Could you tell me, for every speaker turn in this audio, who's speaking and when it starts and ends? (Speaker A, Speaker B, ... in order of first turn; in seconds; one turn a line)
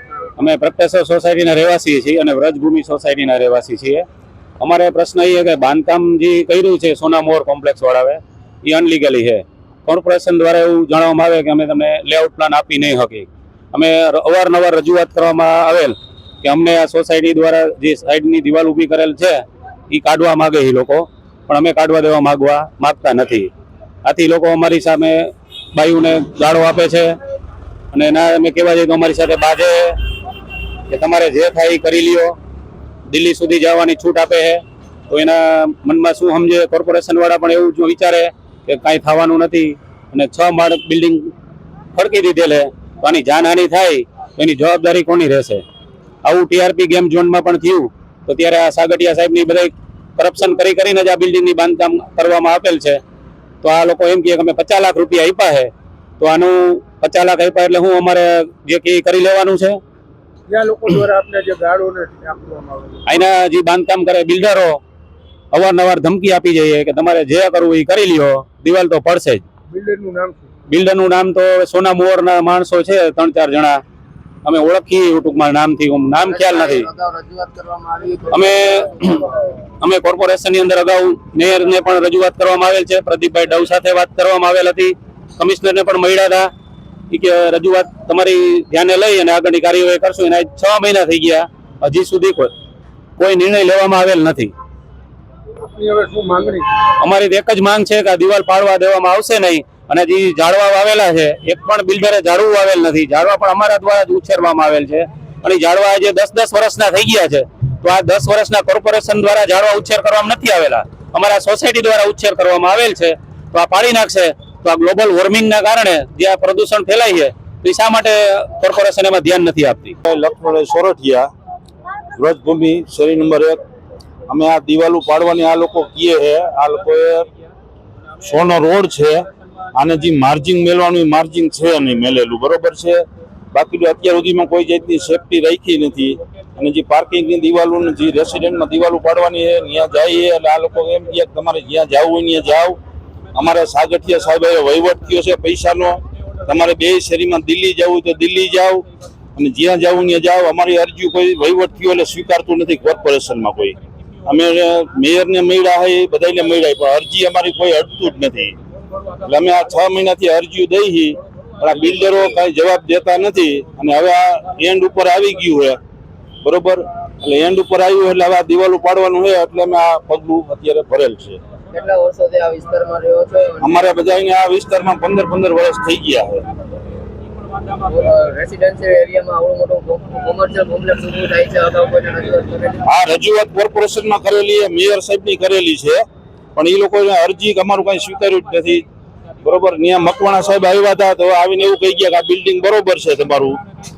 Speaker A: 0.4-4.0
Speaker A: 4.6-23.5
Speaker A: 24.0-27.2
Speaker A: 27.9-30.0
Speaker A: 30.9-32.4
Speaker A: 33.1-41.3
Speaker A: 41.9-45.6
Speaker A: 46.2-53.0
Speaker A: 53.6-59.8
Speaker B: 60.5-63.1
Speaker A: 63.1-64.8
Speaker A: 65.5-69.4
Speaker B: 69.7-70.5
Speaker A: 70.7-73.8
Speaker A: 74.4-76.9
Speaker C: 76.2-79.5
Speaker A: 78.3-79.2
Speaker A: 79.8-86.5
Speaker A: 87.1-92.5
Speaker A: 93.2-94.5
Speaker B: 95.6-96.7
Speaker A: 97.0-120.0
Speaker D: 120.0-121.3
Speaker D: 122.2-123.6
Speaker D: 124.3-127.3
Speaker D: 128.2-142.8
Speaker D: 143.3-148.8
Speaker D: 149.3-158.5
Speaker D: 159.2-165.8
Speaker D: 166.4-171.4
Speaker C: 171.7-173.9
Speaker D: 173.6-176.4
Speaker C: 177.8-182.8
Speaker D: 182.8-186.0
Speaker D: 186.6-188.8
Speaker D: 189.4-193.6